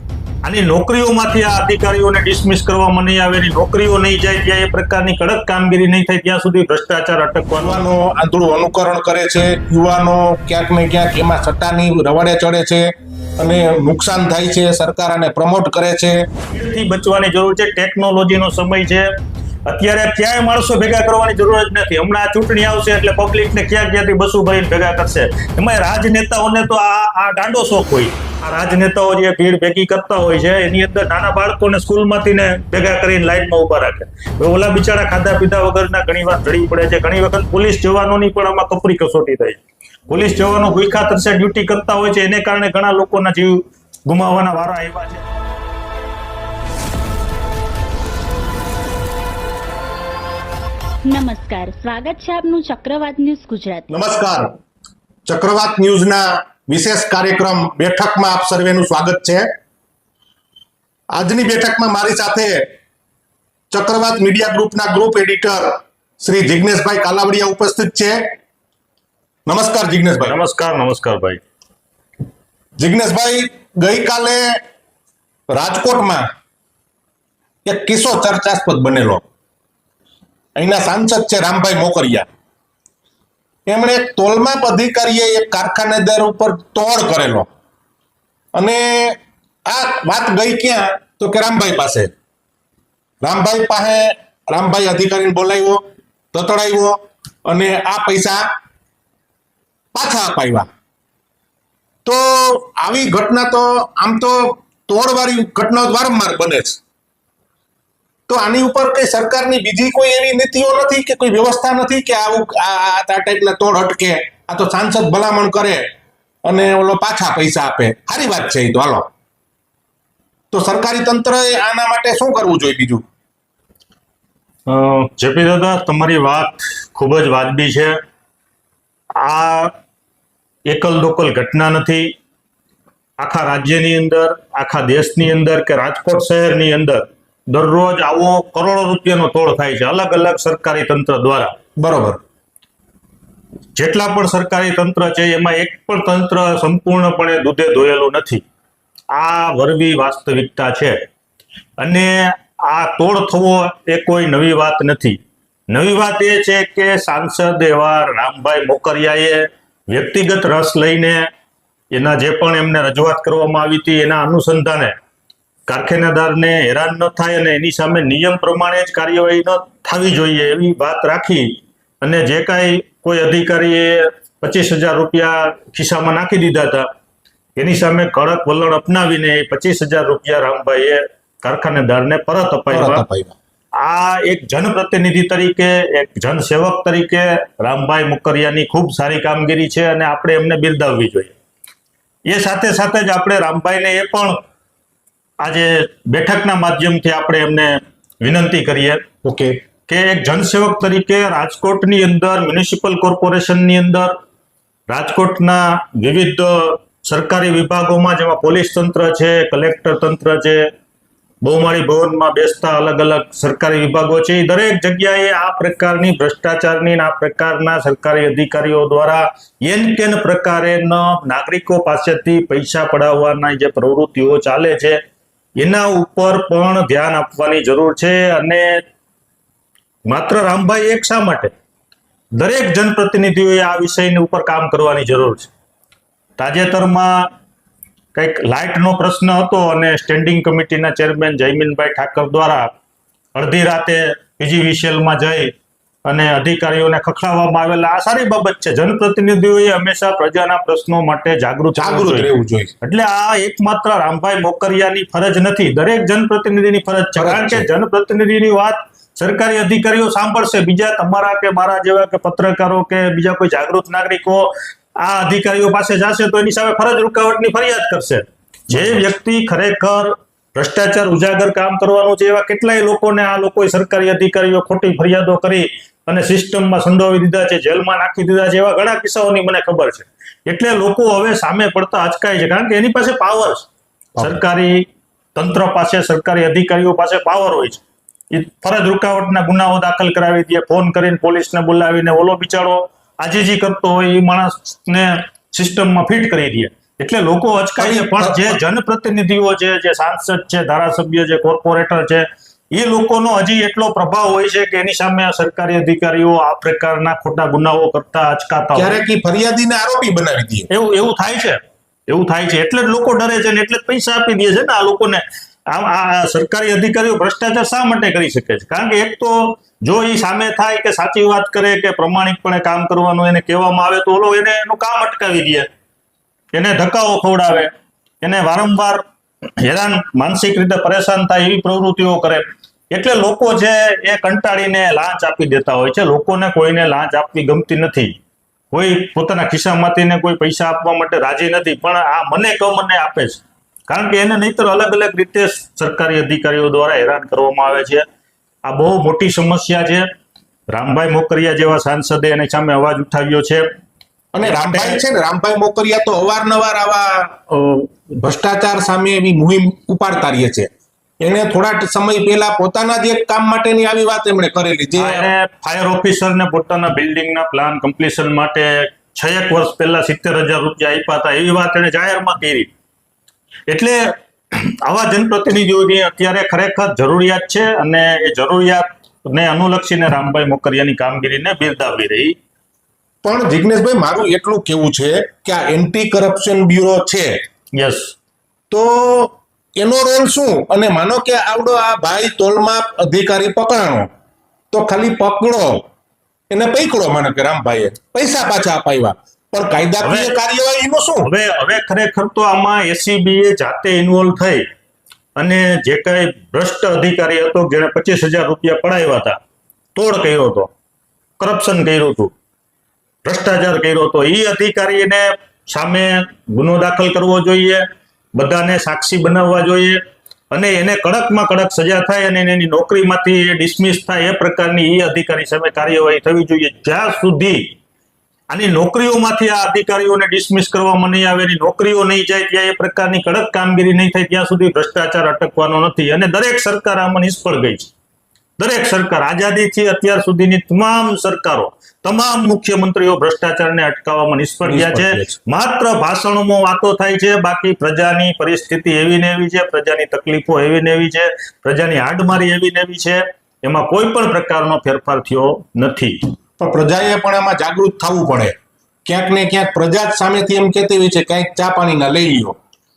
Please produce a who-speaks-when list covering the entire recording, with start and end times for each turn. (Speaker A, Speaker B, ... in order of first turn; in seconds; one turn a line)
Speaker A: 0.4-7.8
Speaker B: 7.5-16.3
Speaker A: 16.5-19.1
Speaker A: 19.7-45.2
Speaker C: 51.0-53.9
Speaker B: 53.9-54.5
Speaker B: 55.2-59.5
Speaker B: 61.1-62.6
Speaker B: 63.7-68.3
Speaker B: 69.5-70.3
Speaker A: 70.2-71.4
Speaker B: 72.8-74.6
Speaker B: 75.5-76.2
Speaker B: 77.6-79.2
Speaker B: 80.5-82.3
Speaker B: 83.7-87.5
Speaker B: 88.5-92.1
Speaker B: 93.2-95.8
Speaker B: 96.3-98.4
Speaker B: 99.9-100.7
Speaker B: 102.0-106.8
Speaker B: 108.3-115.8
Speaker B: 116.5-119.1
Speaker B: 120.5-123.0
Speaker A: 124.7-128.0
Speaker A: 129.1-129.7
Speaker A: 130.7-132.1
Speaker A: 133.2-141.5
Speaker B: 141.8-142.2
Speaker A: 143.8-148.4
Speaker A: 149.1-151.0
Speaker A: 151.8-155.2
Speaker A: 155.7-161.3
Speaker A: 161.9-164.9
Speaker A: 165.7-176.9
Speaker A: 177.6-183.0
Speaker B: 182.7-183.3
Speaker A: 183.7-191.3
Speaker A: 192.2-194.4
Speaker A: 195.4-199.1
Speaker B: 199.2-199.6
Speaker A: 199.9-204.2
Speaker A: 204.9-210.7
Speaker A: 211.4-225.0
Speaker A: 225.6-228.8
Speaker A: 230.1-231.5
Speaker A: 232.3-235.5
Speaker A: 236.4-237.3
Speaker A: 238.1-242.7
Speaker A: 243.3-245.5
Speaker A: 246.0-252.3
Speaker B: 251.8-252.7
Speaker A: 252.8-309.0
Speaker B: 257.1-257.7
Speaker B: 268.7-269.1
Speaker B: 284.1-284.4
Speaker B: 297.8-298.6
Speaker B: 308.8-310.7
Speaker A: 310.7-325.7
Speaker A: 326.5-327.7
Speaker A: 328.2-329.0
Speaker A: 329.6-338.2
Speaker A: 338.7-348.0
Speaker A: 348.6-350.1
Speaker A: 350.7-353.7
Speaker B: 354.3-365.3
Speaker A: 354.4-355.0
Speaker A: 365.0-372.7
Speaker A: 373.7-382.4
Speaker B: 383.2-387.4
Speaker A: 387.7-388.1
Speaker B: 388.7-394.1
Speaker B: 394.7-395.8
Speaker B: 396.5-401.3
Speaker A: 400.0-400.3
Speaker A: 401.2-404.6
Speaker A: 405.4-409.4
Speaker A: 409.9-410.7
Speaker A: 411.4-412.3
Speaker A: 413.2-427.7
Speaker A: 428.5-437.9
Speaker A: 438.6-456.2
Speaker B: 444.6-445.3
Speaker B: 456.6-458.5
Speaker B: 459.0-462.6